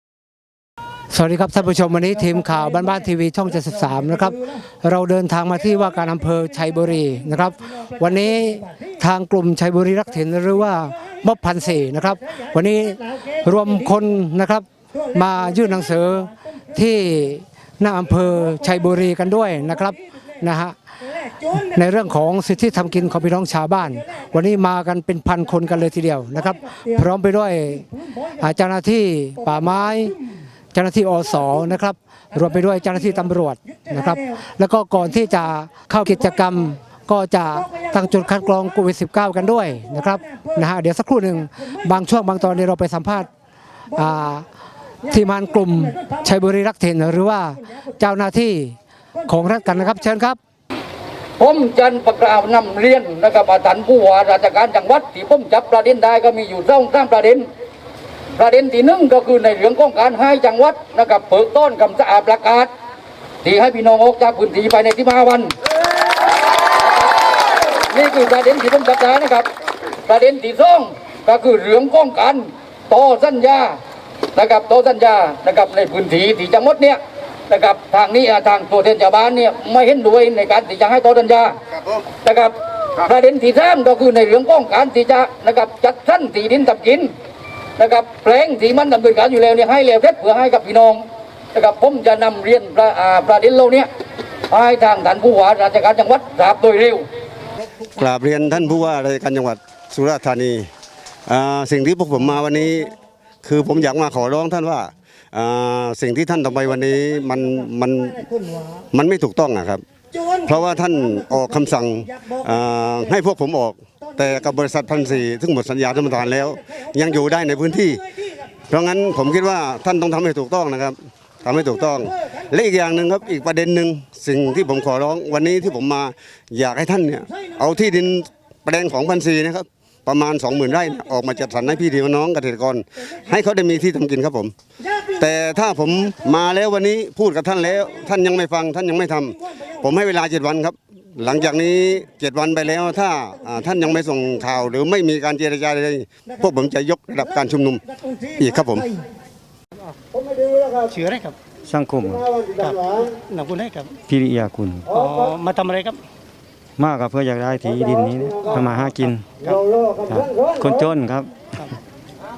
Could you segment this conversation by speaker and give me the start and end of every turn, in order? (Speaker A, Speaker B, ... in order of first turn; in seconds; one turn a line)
Speaker A: 1.1-20.7
Speaker A: 21.5-27.9
Speaker A: 28.4-30.1
Speaker A: 30.7-43.3
Speaker A: 43.9-44.5
Speaker A: 45.1-50.4
Speaker B: 51.4-57.4
Speaker B: 58.4-62.7
Speaker B: 63.4-65.5
Speaker B: 67.9-69.5
Speaker B: 70.1-73.7
Speaker B: 74.3-77.0
Speaker B: 77.5-81.6
Speaker B: 82.2-87.1
Speaker B: 87.8-91.0
Speaker B: 91.5-93.9
Speaker B: 94.5-97.0
Speaker C: 97.9-100.6
Speaker C: 101.3-102.9
Speaker C: 103.4-108.2
Speaker C: 108.9-109.8
Speaker C: 110.4-118.0
Speaker C: 118.7-134.5
Speaker C: 135.2-147.8
Speaker C: 148.3-148.9
Speaker D: 150.8-151.3
Speaker E: 151.7-152.3
Speaker D: 152.5-153.9
Speaker E: 154.1-154.9
Speaker D: 154.9-156.0
Speaker E: 156.8-159.3
Speaker D: 159.4-159.9
Speaker E: 160.0-161.3